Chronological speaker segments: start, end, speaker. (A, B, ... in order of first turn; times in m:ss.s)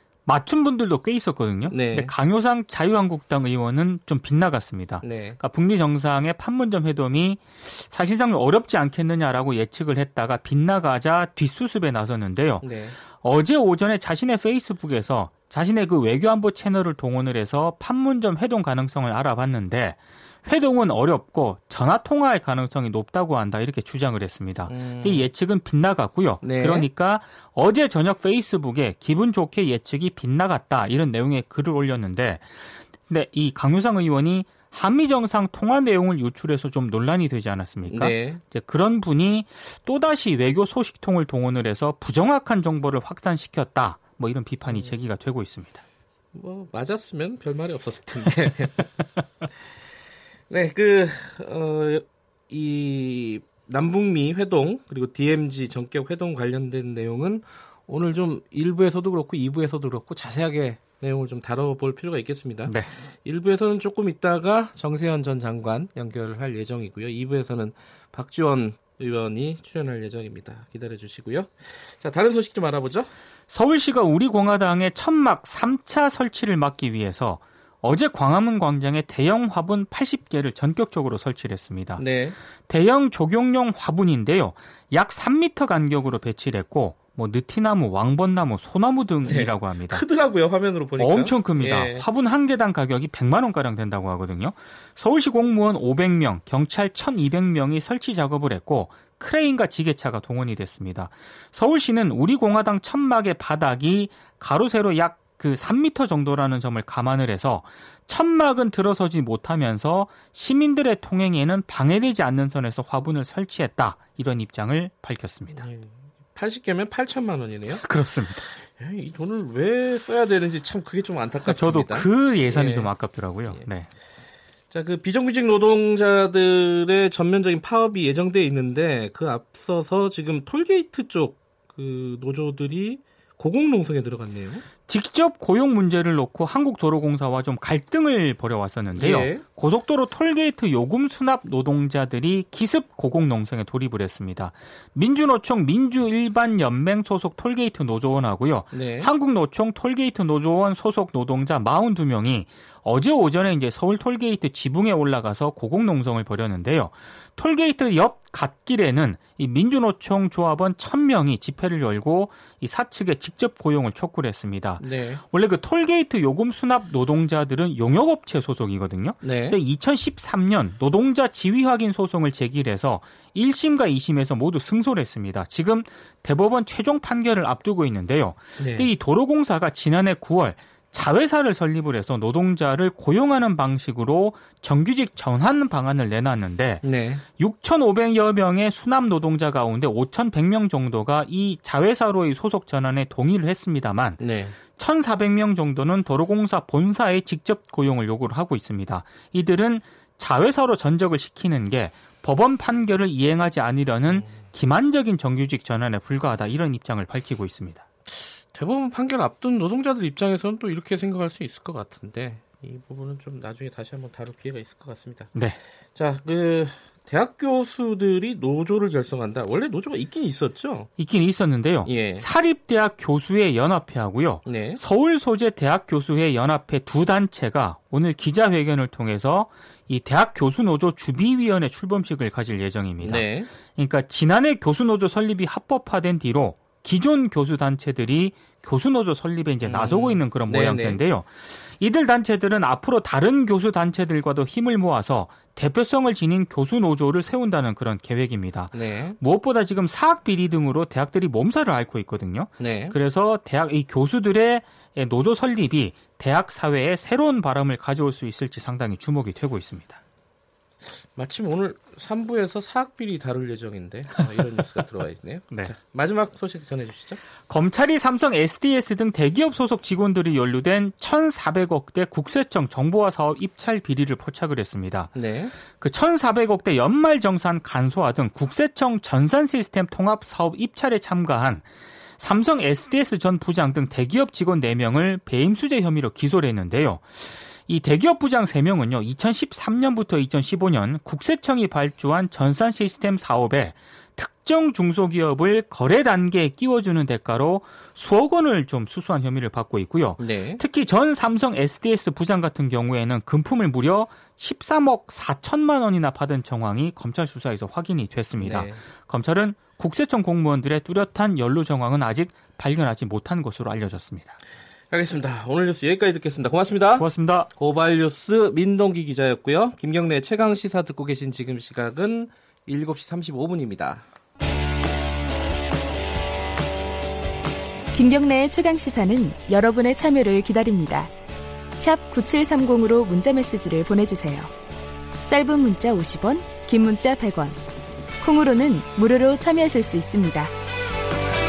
0:00.2-0:45.8 A
0:01.7-0:02.1 B
0:05.0-0:05.4 B
0:12.6-0:13.0 B
0:24.7-0:25.3 B
0:26.4-0:26.9 B
0:37.9-0:38.4 B
0:44.7-0:44.9 B
0:46.3-0:48.9 B
0:49.6-0:49.8 B
0:50.5-1:02.7 B
1:02.7-1:02.9 A
1:03.2-1:13.1 B
1:13.5-1:22.0 A
1:22.0-1:22.4 B
1:22.6-1:30.0 A
1:29.2-1:32.1 B
1:31.0-1:55.7 A
1:55.5-2:02.9 B
1:57.8-1:58.4 A
2:01.4-2:03.9 A
2:04.7-2:14.6 B
2:14.9-3:27.8 A
2:19.0-2:19.4 B
2:28.7-2:29.1 B
2:44.8-2:45.2 B
2:49.2-2:49.6 B
2:58.6-2:58.9 B
3:06.8-3:07.2 B
3:14.2-3:14.6 B
3:24.1-3:24.4 B
3:28.1-3:40.9 B
3:41.0-4:20.0 A
3:41.8-3:42.2 B
3:44.4-3:44.8 B
3:53.0-3:53.5 B
3:59.6-4:01.0 B
4:08.7-4:09.2 B
4:12.6-4:12.9 B
4:20.8-4:27.2 B
4:27.5-5:14.4 A
4:35.1-4:35.5 B
5:00.2-5:00.6 B
5:08.4-5:08.8 B
5:14.9-5:24.0 B
5:17.0-5:17.5 A
5:27.9-5:31.1 C
5:31.8-5:34.5 C
5:35.3-5:37.6 C
5:38.2-5:40.5 C